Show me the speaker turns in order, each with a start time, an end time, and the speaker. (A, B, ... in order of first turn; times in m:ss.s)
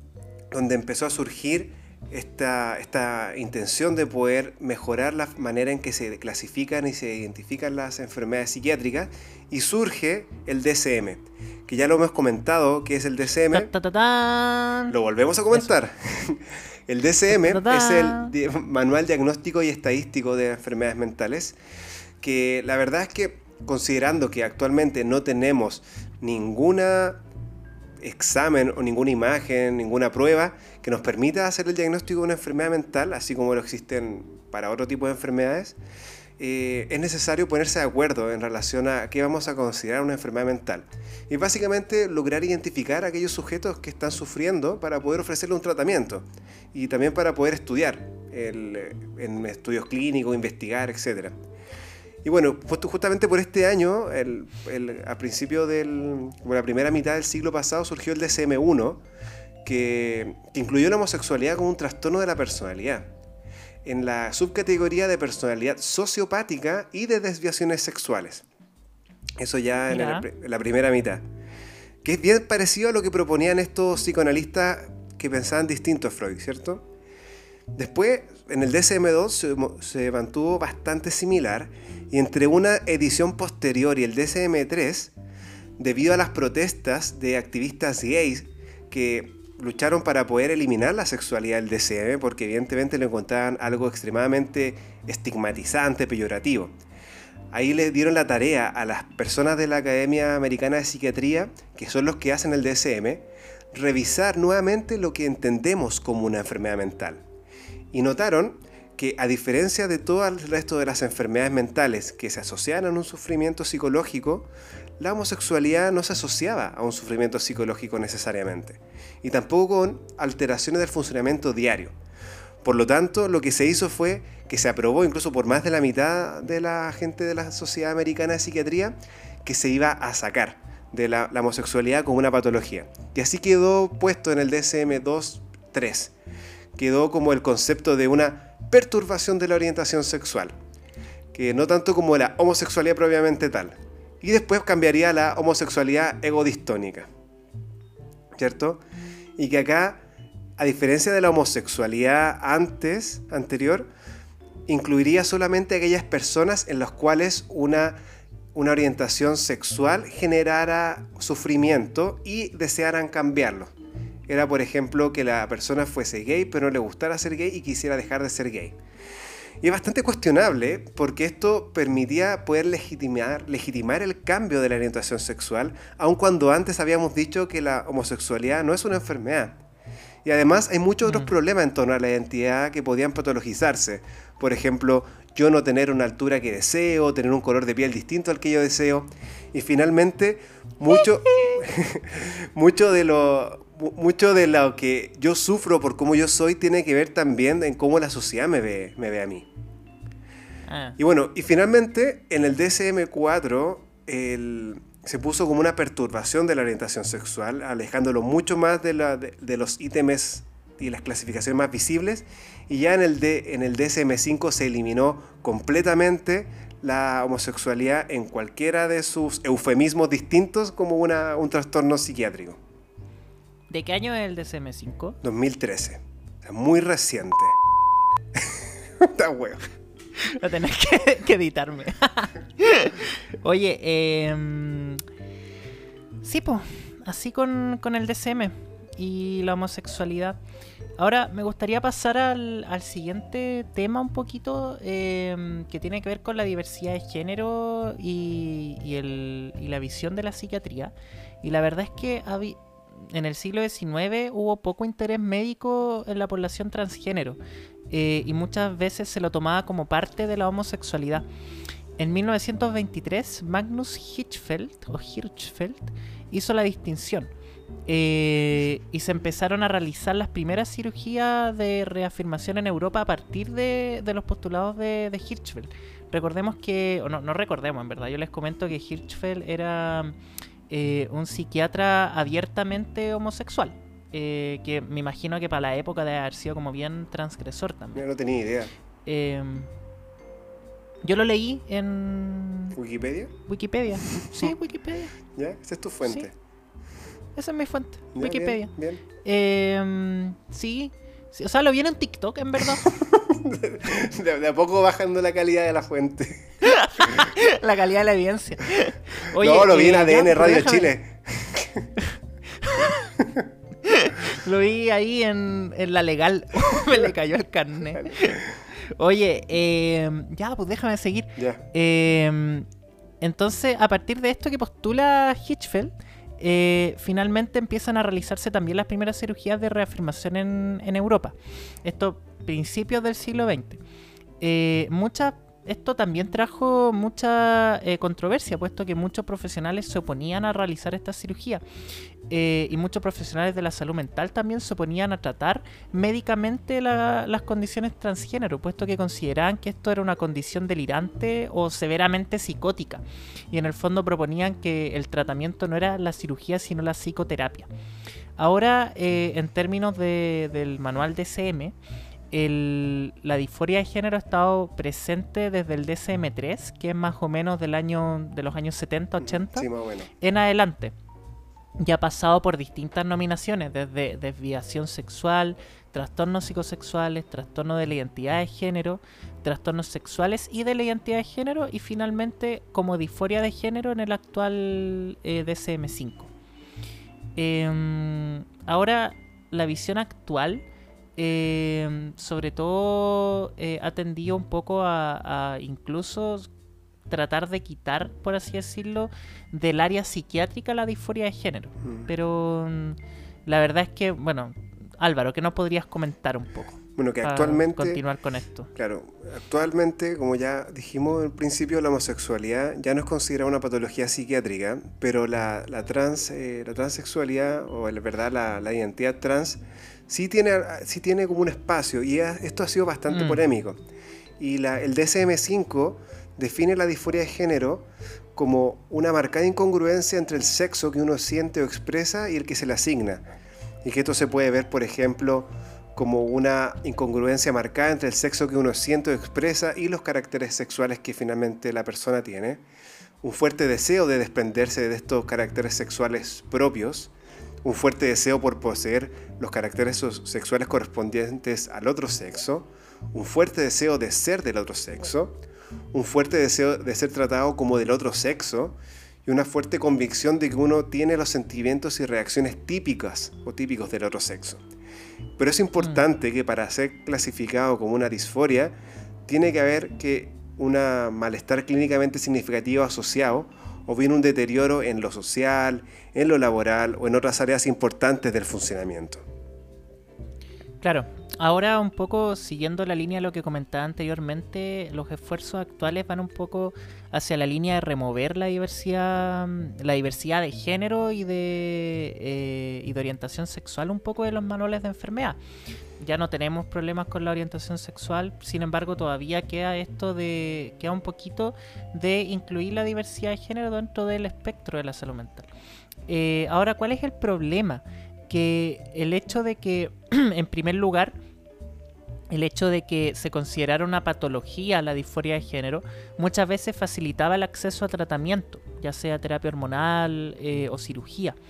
0:00.5-0:13.7 A
0:13.5-0:14.9 B
0:14.9-0:21.6 A
0:17.3-0:18.3 B
0:22.2-0:27.2 A
0:28.0-0:35.8 A
0:36.4-0:51.3 A
0:52.2-0:59.0 A
0:59.6-1:03.1 A
1:03.8-1:08.4 A
1:09.4-1:11.2 A
1:09.9-1:10.3 B
1:12.0-1:16.8 A
1:17.7-1:25.1 A
1:25.8-1:36.7 A
1:37.5-1:47.2 A
1:47.9-2:01.9 A
2:02.6-2:16.1 A
2:16.8-2:20.5 A
2:21.3-2:27.1 A
2:28.4-2:28.8 A
2:29.4-2:30.0 A
2:30.6-2:33.9 A
2:34.7-2:38.0 A
2:38.5-2:43.7 A
2:44.3-2:48.8 A
2:49.6-2:59.6 A
3:00.2-3:19.5 A
3:01.0-3:01.3 B
3:20.7-3:21.0 B
3:21.0-3:42.6 A
3:43.7-3:45.2 B
3:45.2-3:47.6 A
3:48.4-3:49.6 A
3:50.2-3:55.0 B
3:56.2-4:00.4 B
4:01.0-4:17.4 B
4:17.9-4:21.2 B
4:22.0-4:27.3 B
4:27.9-4:40.1 B
4:40.7-4:48.0 B
4:47.9-4:48.7 A
4:49.0-4:49.7 B
4:51.0-4:52.8 B
4:52.7-4:53.3 A
4:53.5-4:55.2 B
4:54.1-4:54.5 A
4:55.3-4:56.3 A
4:57.4-4:58.7 B
4:58.1-4:59.0 A
4:59.2-5:02.9 B
5:02.8-5:07.2 A
5:06.6-5:10.9 B
5:09.3-5:11.9 A
5:12.6-5:13.2 B
5:13.8-5:22.6 B
5:21.4-5:21.6 A
5:23.2-5:33.8 B
5:34.4-5:41.6 B
5:42.3-5:57.7 B
5:58.4-6:01.7 B
6:02.3-6:09.7 B
6:09.2-6:10.1 A
6:10.2-6:10.9 B
6:11.8-6:26.3 B
6:27.4-6:30.6 B
6:31.2-6:36.5 B
6:37.1-6:48.7 B
6:41.8-6:42.1 A
6:47.0-6:48.0 A
6:48.7-7:03.8 A
7:03.1-7:03.4 B
7:04.4-7:13.2 A
7:13.8-7:22.6 A
7:23.2-7:27.1 A
7:27.6-7:35.4 A
7:35.9-7:44.6 A
7:45.4-7:48.7 A
7:49.3-7:59.2 A
8:00.8-8:15.4 B
8:16.0-8:25.5 B
8:26.1-8:31.1 B
8:32.3-8:41.4 B